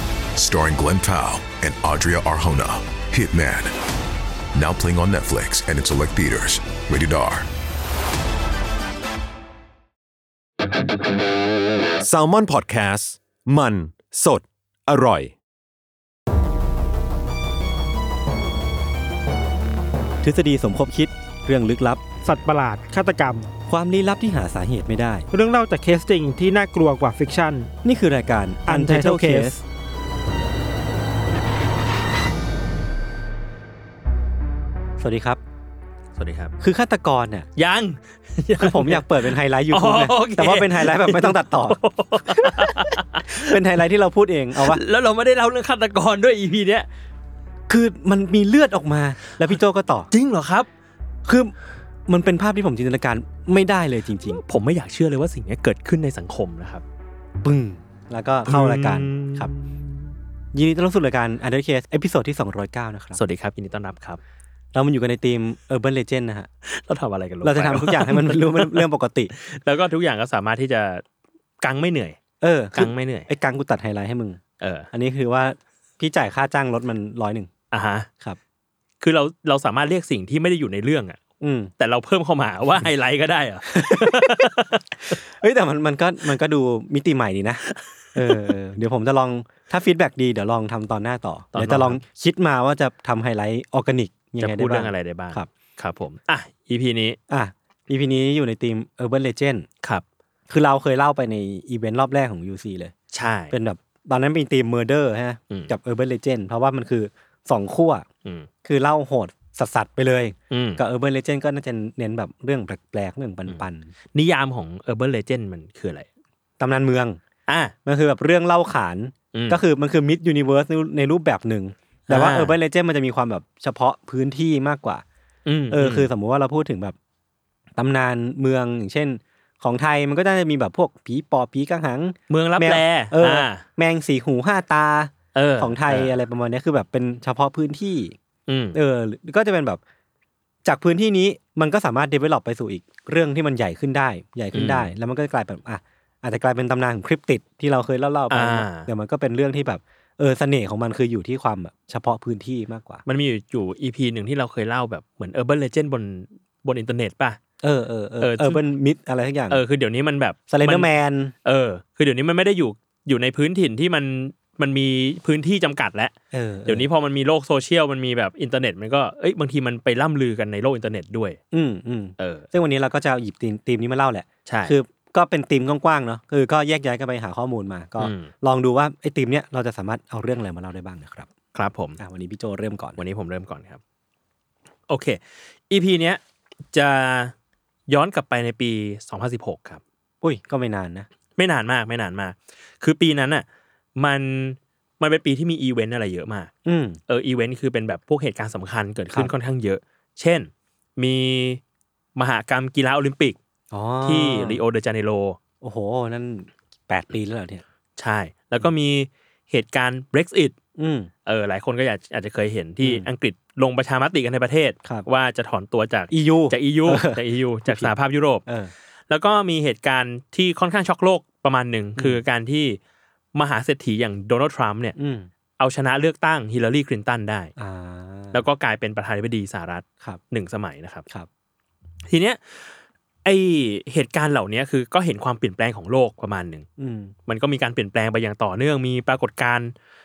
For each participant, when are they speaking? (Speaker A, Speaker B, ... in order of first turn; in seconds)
Speaker A: 0.3-3.7, 4.5-7.5
Speaker B: 12.0-15.3
Speaker C: 20.2-22.1, 23.7-25.3, 27.8-29.6, 35.0-35.4, 36.6-37.5, 38.6-44.8, 47.7-50.1, 51.2-51.5, 52.1-54.4, 57.4-59.5, 60.5-63.2, 64.7-66.5, 67.4-69.3, 72.4-74.4, 74.9-77.5, 81.4-81.7, 83.7-87.6, 88.1-95.5, 97.3-99.7, 100.5-102.9, 103.5-108.1, 108.6-113.9, 116.6-117.2, 117.8-125.0, 125.7-127.0, 127.8-138.2, 138.7-139.8, 140.6-153.0, 157.6-159.6, 160.5-161.3, 166.3-166.9, 171.5-181.3, 182.0-183.0, 190.2-191.1, 196.7-197.0, 203.7-204.6, 205.6-207.6, 210.8-211.1, 212.8-213.1, 216.1-217.9, 218.5-218.7, 225.0-225.3, 227.6-228.5, 236.8-237.1
Speaker D: 22.2-23.5, 25.3-27.7, 28.7-29.6
Speaker E: 36.2-36.5, 37.5-43.6, 44.6-46.9, 50.1-50.7, 54.5-56.8, 58.4-60.1, 63.2-64.2, 66.6-71.0, 71.6-72.2, 72.7-73.3, 74.6-74.9, 77.7-78.1, 79.0-81.2, 81.8-85.2, 91.5-92.0, 94.4-97.2, 103.1-103.5, 110.5-110.8, 114.1-116.1, 117.5-117.7, 119.3-119.6, 122.1-122.6, 125.5-126.1, 132.3-133.6, 135.3-136.1, 138.5-138.8, 144.5-144.9, 148.3-148.9, 153.1-157.4, 158.2-158.6, 159.5-160.9, 161.4-166.1, 166.7-171.4, 172.2-172.5, 174.5-174.8, 178.0-178.3, 181.5-182.0, 183.0-183.8, 184.9-186.2, 186.7-187.3, 187.9-189.8, 191.3-193.4, 194.0-196.5, 197.1-201.6, 202.2-203.4, 204.0-205.4, 208.0-210.6, 211.2-218.4, 219.1-222.8, 223.3-225.0, 225.6-227.5, 228.3-231.1, 232.1-236.7, 237.2-239.7